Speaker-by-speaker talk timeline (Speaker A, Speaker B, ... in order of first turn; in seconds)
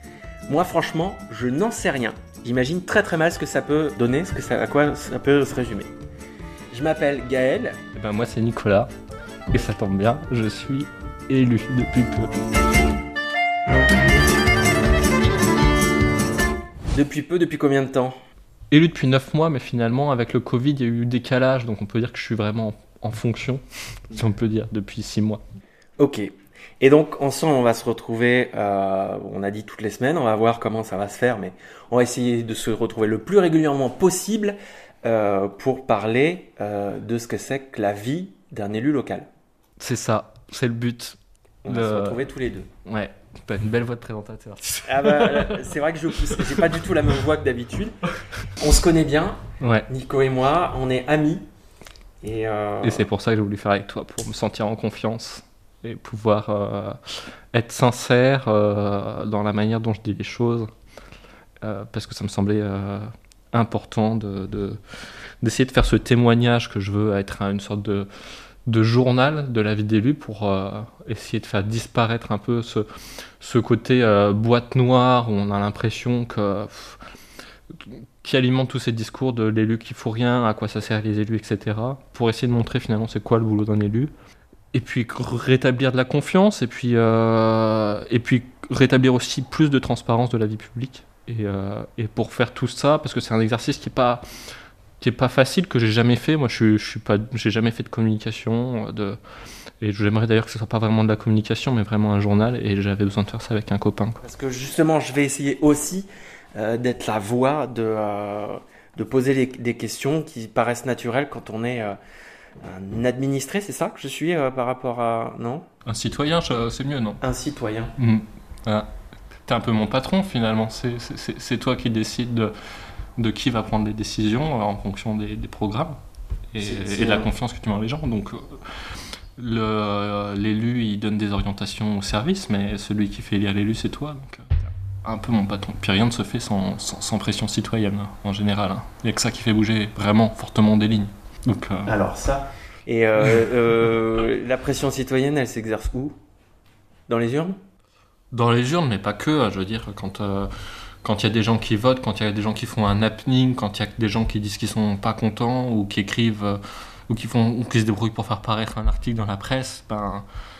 Speaker A: 0.5-5.9, 6.7-7.8, 16.9-18.1, 26.0-39.3, 41.6-42.7, 44.9-48.0, 48.5-51.4, 52.2-53.1, 104.2-112.0, 112.6-115.6, 117.2-117.9, 126.6-127.3, 141.8-146.1, 147.1-147.6
Speaker B: 7.9-8.9, 9.5-12.3, 18.7-25.4, 39.8-42.2, 42.9-45.6, 46.3-46.6, 49.6-49.9, 52.8-60.7, 61.6-64.8, 65.4-68.1, 68.7-72.8, 73.4-77.0, 77.7-84.1, 84.7-94.2, 95.0-99.2, 99.8-104.2, 115.8-117.2, 118.0-118.9, 119.5-122.5, 123.2-126.0, 126.5-141.9, 148.3-150.5, 151.0-160.2